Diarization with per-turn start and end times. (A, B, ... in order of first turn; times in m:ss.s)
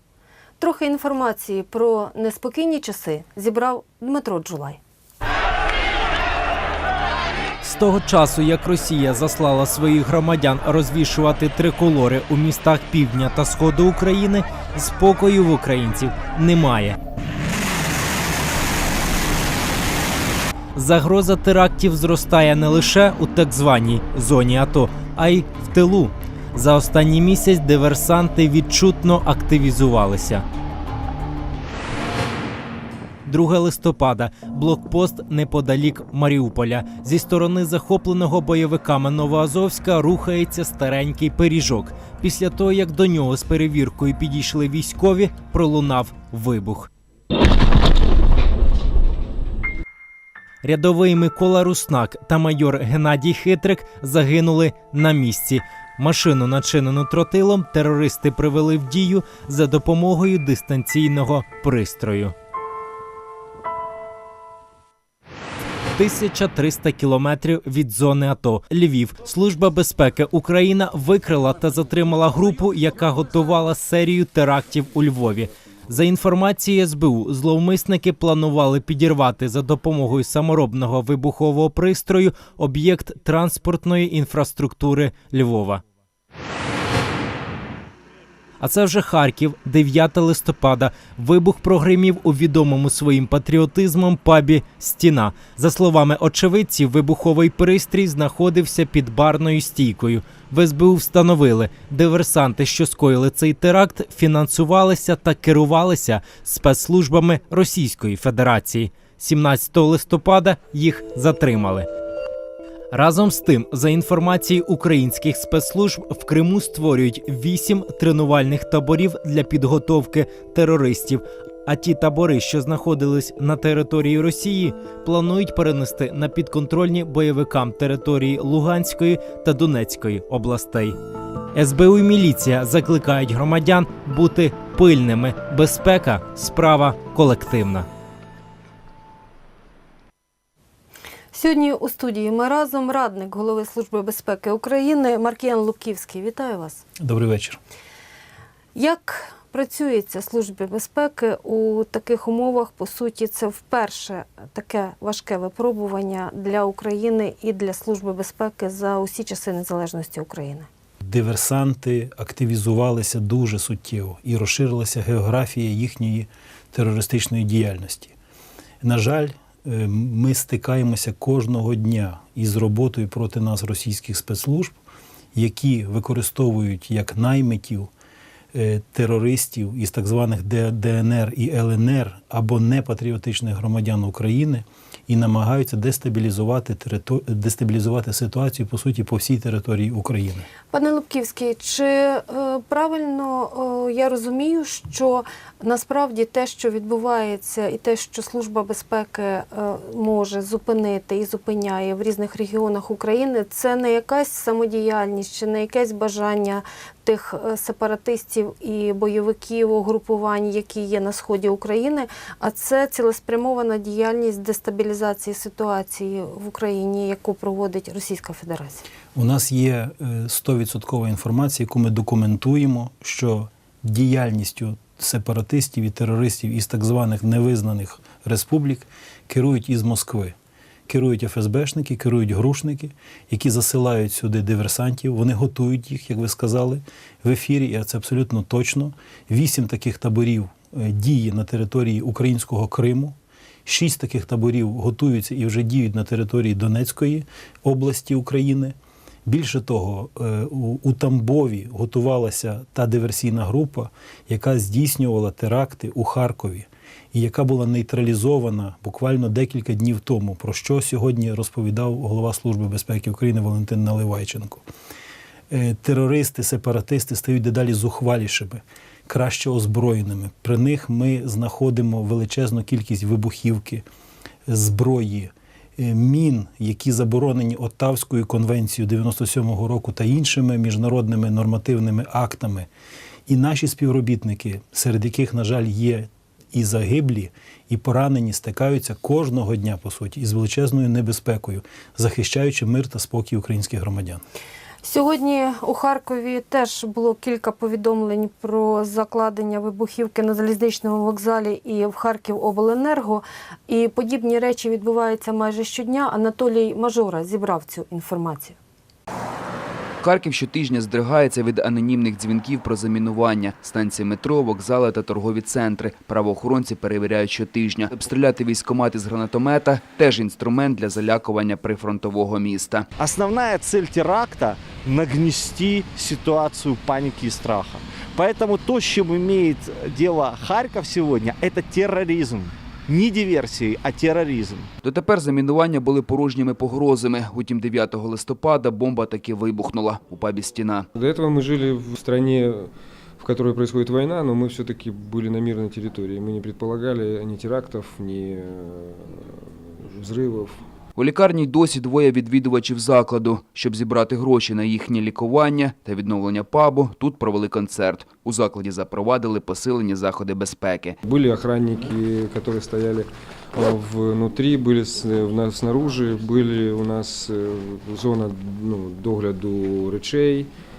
0:00.6-0:04.8 A
0:07.6-0:17.0 B
0:20.7-0:30.4 B
0:33.2-0:46.9 B
0:50.6-1:02.3 B
1:05.9-1:25.8 B
1:28.6-1:51.9 B
1:52.9-2:11.0 B
2:11.5-2:17.9 B
2:21.3-2:26.8 A
2:27.0-2:27.6 C
2:28.7-2:40.7 A
2:41.0-2:48.1 C
2:48.8-2:54.8 C
2:55.3-2:57.9 C
2:58.5-3:10.5 C
3:10.7-3:38.8 A
3:39.1-3:50.4 C
3:50.9-4:24.6 C
4:25.5-4:33.8 C
4:34.5-4:42.7 C
4:43.3-4:54.2 C
4:54.8-5:08.6 A
5:10.0-5:22.8 D
5:23.0-5:34.7 E
5:34.8-5:40.8 D
5:40.9-5:50.6 F
5:51.0-6:00.9 D
6:01.0-6:10.5 F